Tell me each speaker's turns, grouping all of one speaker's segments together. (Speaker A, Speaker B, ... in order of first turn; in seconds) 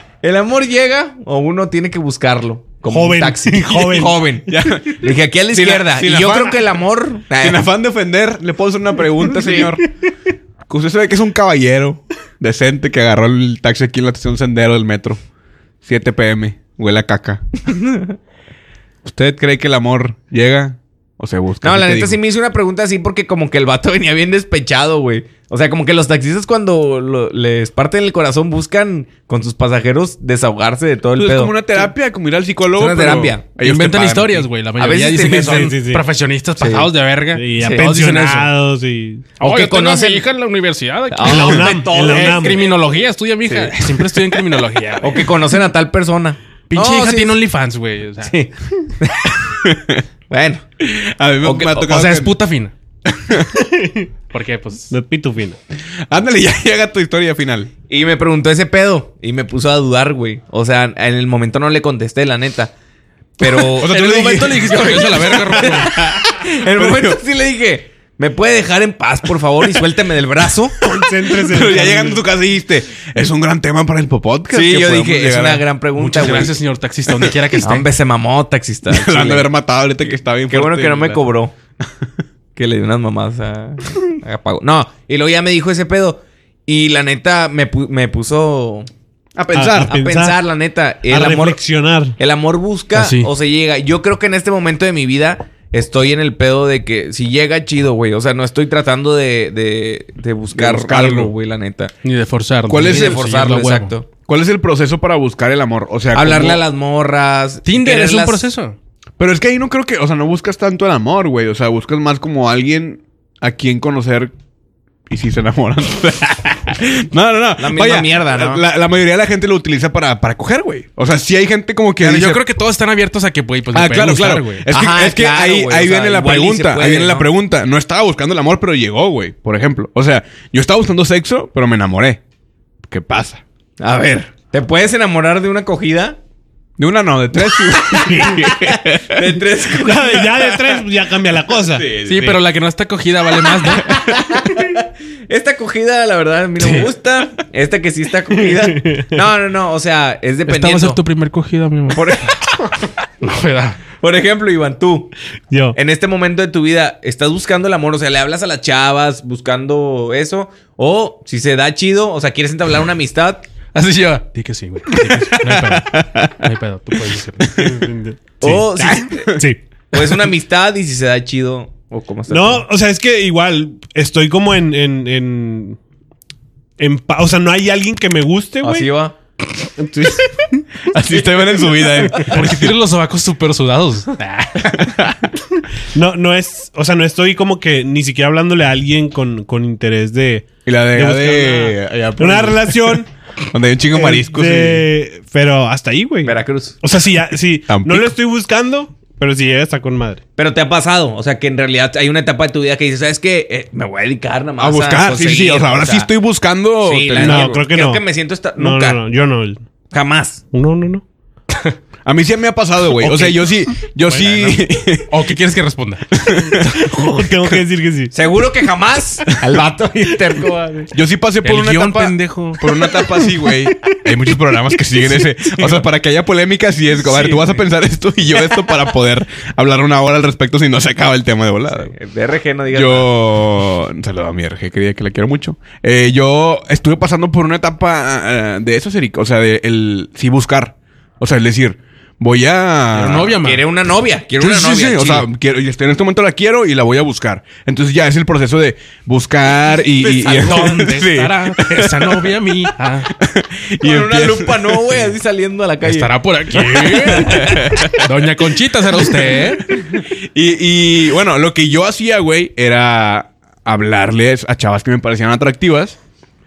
Speaker A: 0.2-7.7, 17.7-18.1, 21.6-31.6, 32.8-33.5, 34.8-35.8, 36.6-36.9, 37.6-37.9, 39.4-40.3, 41.1-42.6, 43.5-44.1, 45.0-47.4, 48.2-49.4, 50.3-50.6, 51.4-52.0, 57.9-62.7, 63.4-63.9, 64.5-70.8, 74.5-76.5, 77.6-79.5, 80.5-81.5, 82.6-88.9, 89.9-91.6, 92.2-101.9, 102.8-104.1, 106.1-108.5, 117.6-118.7, 124.7-127.3, 133.8-136.2, 137.7-140.3, 143.8-151.0, 151.9-152.3, 154.0-155.1, 155.7-163.4, 168.4-169.4, 169.9-172.7, 178.6-179.2, 196.2-196.8, 200.4-206.1, 206.8-209.0, 209.9-210.4, 218.1-220.9, 227.0-227.6, 231.8-233.1, 243.4-245.3, 250.3-250.8, 253.8-257.7
Speaker B: 2.9-4.2, 35.4-36.0, 37.3-39.3, 41.2-42.7, 53.6-54.1, 54.9-55.6, 70.8-72.2, 89.5-90.4, 91.1-92.2, 138.1-138.4, 139.8-141.9, 148.5-149.2, 155.5-155.8, 167.6-169.6, 172.3-175.8, 176.8-178.9, 179.8-180.1, 185.9-193.1, 193.9-200.2, 207.1-208.1, 208.6-209.6, 210.5-211.0, 216.7-218.1
Speaker C: 4.5-6.6, 7.4-9.9, 10.7-15.2, 15.8-17.4, 19.0-22.2, 31.2-34.5, 49.6-50.0, 50.8-52.3, 53.1-53.6, 56.1-57.7, 63.8-67.2, 71.0-75.7, 78.9-81.2, 89.4-89.9, 100.5-101.3, 102.7-103.2, 104.2-106.6, 109.2-114.3, 115.1-122.4, 123.7-132.2, 132.9-133.4, 136.8-139.2, 141.6-142.4, 143.8-144.2, 165.3-166.4, 167.6-167.8, 168.9-169.4, 179.9-182.8, 184.6-185.3, 190.7-194.9, 197.7-198.1, 204.6-207.6, 212.1-215.1, 216.2-216.9, 220.9-231.9, 232.7-243.4, 244.4-252.4, 253.2-255.1, 257.1-258.1, 259.7-266.0
Speaker D: 33.6-38.5, 39.4-45.3, 46.7-48.4, 51.8-52.7, 54.3-54.9, 63.7-65.9, 76.0-77.9, 92.9-93.3, 102.0-103.9, 107.7-108.8, 122.0-124.7, 142.1-143.9, 146.6-146.9, 150.5-152.1, 153.2-153.8, 163.7-167.6, 182.2-184.9, 213.0-213.3, 213.9-216.8, 221.4-222.9, 242.9-243.6, 250.0-253.1, 255.8-259.7